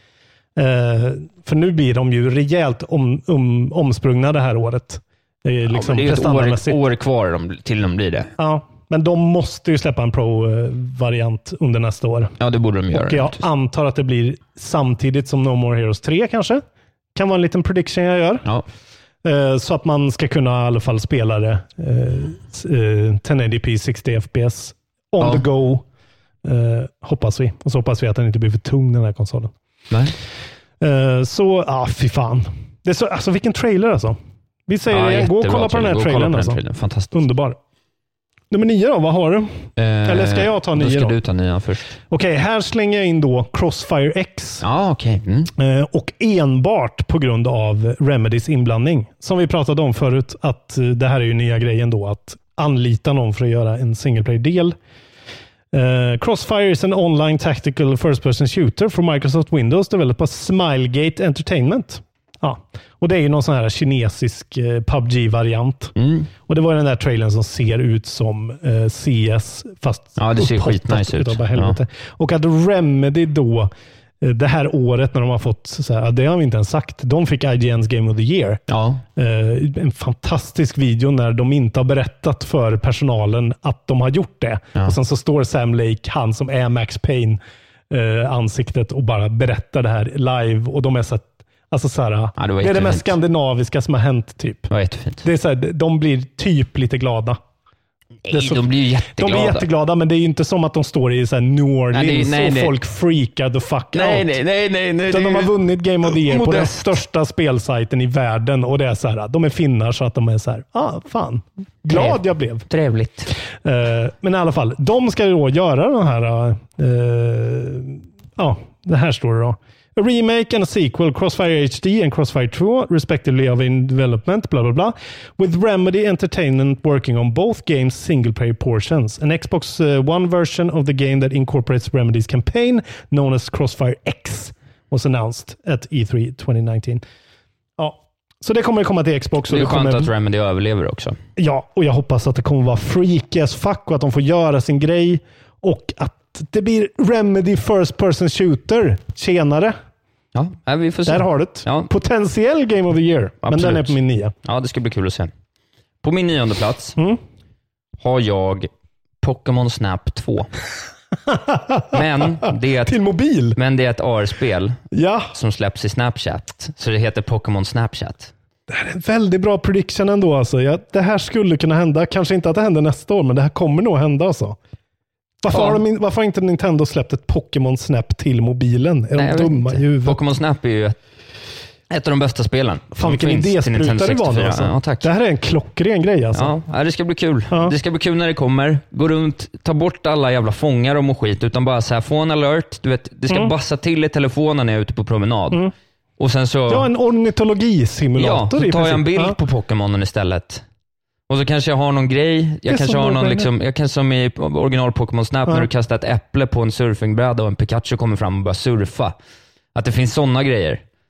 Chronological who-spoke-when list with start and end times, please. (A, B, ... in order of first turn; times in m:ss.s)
0:00.6-0:06.8 A
0:05.7-0:08.3 B
0:08.4-0:12.3 A
0:12.4-0:13.4 B
0:12.9-0:16.6 A
0:17.1-0:18.4 A
0:19.2-0:25.8 A
0:25.2-0:25.4 B
0:26.4-0:29.5 A
0:30.8-0:36.6 A
0:34.9-0:37.2 B
0:37.1-0:37.6 A
0:38.5-0:41.2 A
0:39.8-0:42.0 B
0:42.1-0:44.6 A
0:44.6-0:45.5 B
0:45.6-0:54.8 A
0:55.7-1:18.6 A
1:06.0-1:06.3 B
1:10.2-1:11.8 B
1:18.7-1:19.0 B
1:19.2-1:34.7 A
1:32.4-1:33.1 B
1:34.7-1:35.2 B
1:35.2-1:37.4 A
1:38.2-1:39.7 B
1:38.3-1:44.3 A
1:41.9-1:42.8 B
1:43.9-1:47.0 B
1:45.1-1:52.6 A
1:51.9-1:53.3 B
1:53.6-2:17.0 A
2:17.8-2:20.1 A
2:19.5-2:21.2 B
2:21.4-2:29.8 A
2:30.3-2:31.9 B
2:31.0-2:34.3 A
2:33.4-2:35.3 B
2:36.0-2:37.0 B
2:38.0-2:38.7 B
2:39.2-2:40.5 B
2:41.3-2:43.6 A
2:41.9-2:43.0 B
2:43.5-2:44.8 B
2:44.9-2:45.3 A
2:45.3-2:48.3 B
2:48.7-2:54.6 A
2:55.4-3:00.2 A
2:55.5-2:55.8 B
2:59.2-3:01.0 B
3:01.9-3:05.1 B
3:02.9-3:06.6 A
3:06.3-3:15.6 B
3:16.2-3:16.9 B
3:16.7-3:19.4 A
3:18.2-3:20.6 B
3:21.3-3:29.1 B
3:22.7-3:23.5 A
3:29.7-3:30.8 B